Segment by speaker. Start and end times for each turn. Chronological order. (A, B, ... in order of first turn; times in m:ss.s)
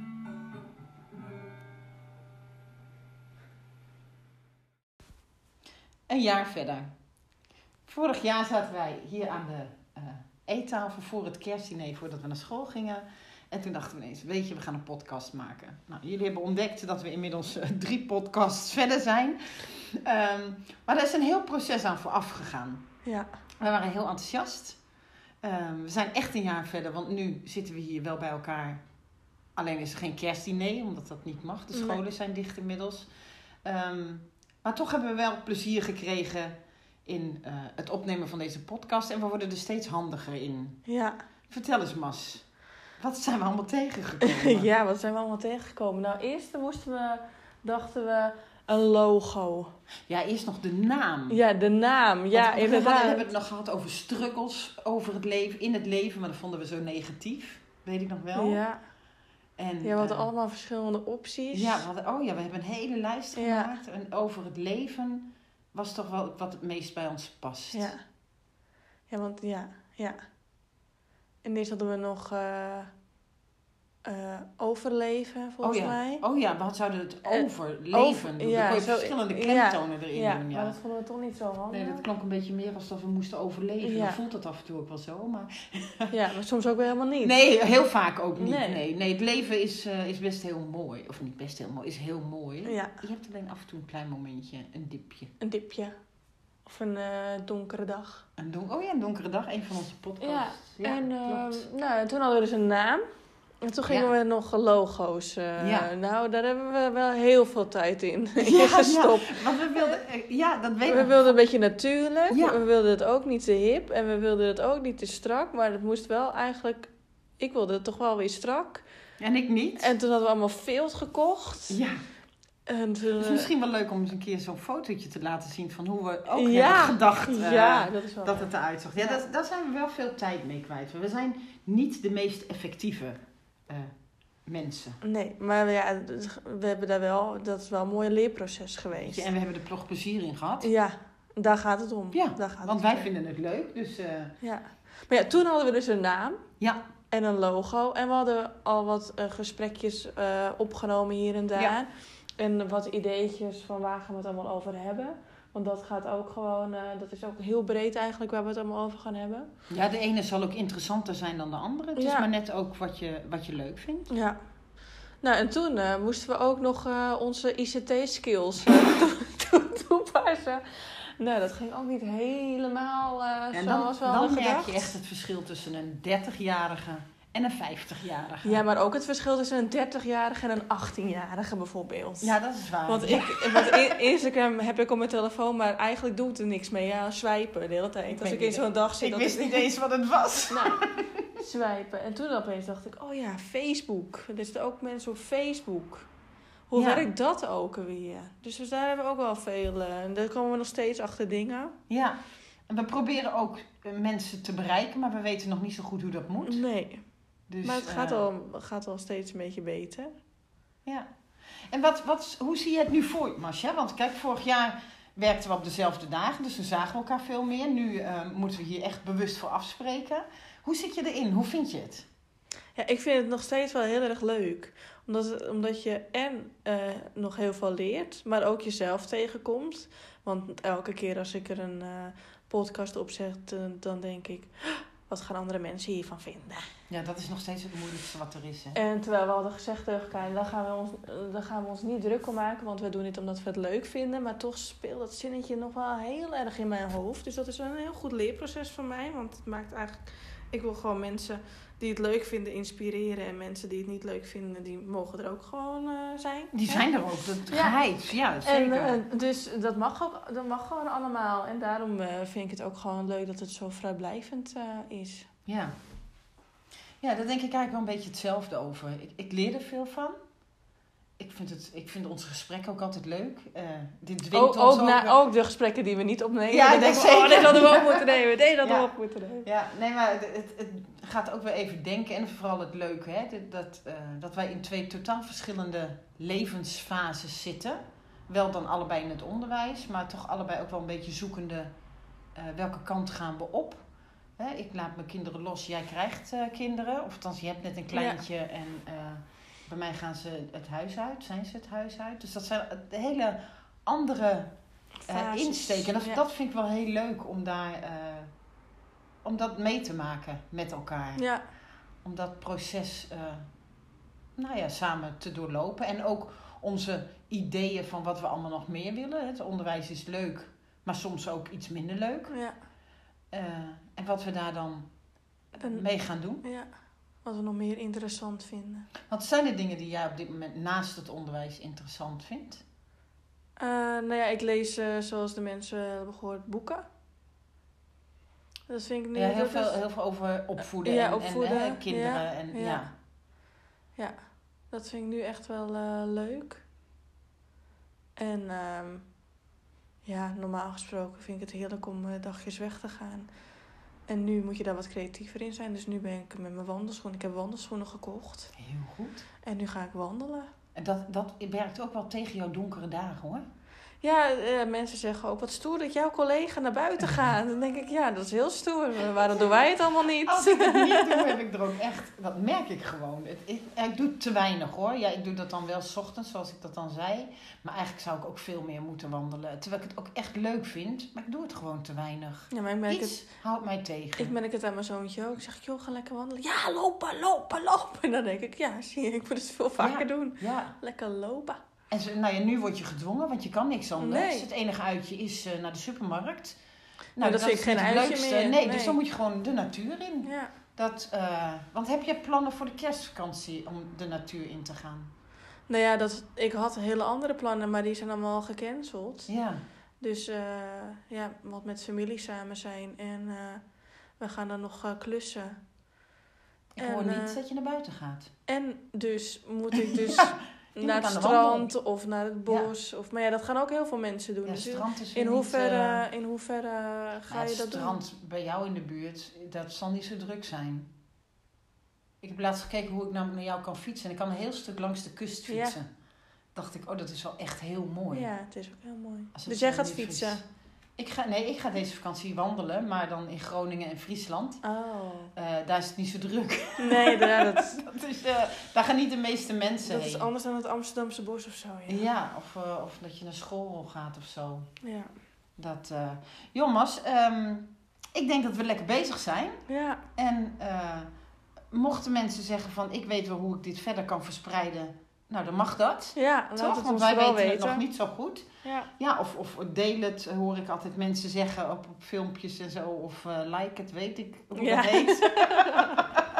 0:06.1-0:06.9 A
0:07.8-0:22.8 A
0:23.0-0:23.3 B
0:23.6-0:24.8 A
0:25.4-0:29.0 A
0:29.5-0:33.1 A
0:31.7-0:32.0 B
0:33.6-0:40.8 A
0:40.8-0:41.2 B
0:41.5-0:44.7 A
0:44.2-0:49.7 B
0:50.1-0:51.4 A
0:51.3-0:53.3 B
0:52.3-0:58.6 A
0:58.3-0:58.9 B
0:59.6-1:00.3 A
0:59.8-1:01.8 B
1:01.5-1:07.9 A
1:03.3-1:03.7 B
1:07.7-1:10.3 B
1:11.4-1:13.0 B
1:14.0-1:16.2 B
1:15.6-1:20.7 A
1:17.2-1:22.0 B
1:21.7-1:26.1 A
1:23.8-1:24.2 B
1:26.1-1:27.4 B
1:27.2-1:35.3 A
1:28.4-1:28.8 B
1:32.6-1:32.9 B
1:35.4-1:38.2 B
1:38.4-1:41.7 A
1:40.2-1:43.0 B
1:43.6-1:50.0 B
1:43.8-1:44.1 A
1:45.6-1:45.9 A
1:48.4-1:51.3 A
1:50.8-1:58.9 B
1:52.3-1:52.6 A
1:59.2-1:59.9 A
1:59.8-2:01.8 B
2:01.7-2:02.0 A
2:02.6-2:03.5 B
2:03.2-2:15.0 A
2:06.3-2:09.2 B
2:15.0-2:19.3 B
2:18.9-2:20.7 A
2:20.6-2:23.1 B
2:22.1-2:24.3 A
2:24.4-2:26.4 B
2:27.1-2:39.5 B
2:39.7-2:44.1 A
2:42.0-2:42.3 B
2:44.1-2:44.4 B
2:45.1-2:55.0 B
2:53.5-2:58.6 A
2:58.4-3:09.7 B
3:02.2-3:03.9 A
3:08.1-3:11.0 A
3:10.5-3:10.8 B
3:11.4-3:16.2 B
3:16.7-3:21.8 B
3:16.7-3:17.0 A
3:21.9-3:26.7 A
3:26.4-3:30.1 B
3:27.5-3:28.2 A
3:30.8-3:42.0 A
3:42.7-3:56.6 B
3:56.9-3:58.8 A
3:58.7-4:16.9 B
4:16.5-4:19.0 A
4:17.5-4:25.3 B
4:25.4-4:25.7 A
4:27.0-4:30.2 A
4:31.2-4:35.2 A
4:34.3-4:39.5 B
4:36.5-4:38.9 A
4:39.4-4:51.7 A
4:52.3-5:08.4 A
4:57.9-4:58.2 B
5:05.0-5:06.2 B
5:09.2-5:13.7 A
5:11.1-5:11.5 B
5:14.3-5:22.4 A
5:22.3-5:22.6 B
5:23.3-5:26.4 A
5:25.6-5:28.9 B
5:29.1-5:32.6 A
5:33.6-5:36.8 B
5:38.7-5:40.1 B
5:39.1-5:42.9 A
5:40.8-5:43.0 B
5:43.9-5:46.6 B
5:48.2-5:49.3 B
5:50.0-5:58.6 B
5:58.5-5:59.3 A
5:59.4-6:00.5 B
6:00.7-6:03.4 A
6:04.0-6:11.3 B
6:10.2-6:24.3 A
6:22.5-6:23.6 B
6:24.2-6:31.6 B
6:29.8-6:30.8 A
6:31.9-6:36.6 A
6:34.0-6:34.4 B
6:37.1-6:45.1 A
6:37.2-6:39.0 B
6:40.2-6:40.5 B
6:45.7-6:55.6 B
6:49.3-6:49.6 A
6:56.7-6:58.3 A
6:56.8-6:57.4 B
6:58.4-7:08.0 B
7:00.8-7:01.8 A
7:02.5-7:02.7 A
7:04.4-7:06.0 A
7:07.3-7:10.9 A
7:12.2-7:18.3 A
7:15.5-7:15.8 B
7:18.1-7:20.4 B
7:19.3-7:20.4 A
7:20.9-7:24.8 A
7:24.6-7:25.3 B
7:25.3-7:30.3 A
7:26.8-7:27.8 B
7:29.8-7:32.0 B
7:31.9-7:34.8 A
7:34.8-7:35.2 B
7:35.6-7:41.1 A
7:39.7-7:40.0 B
7:41.7-7:55.9 A
7:46.1-7:47.8 B
7:48.6-7:48.9 B
7:54.5-7:55.9 B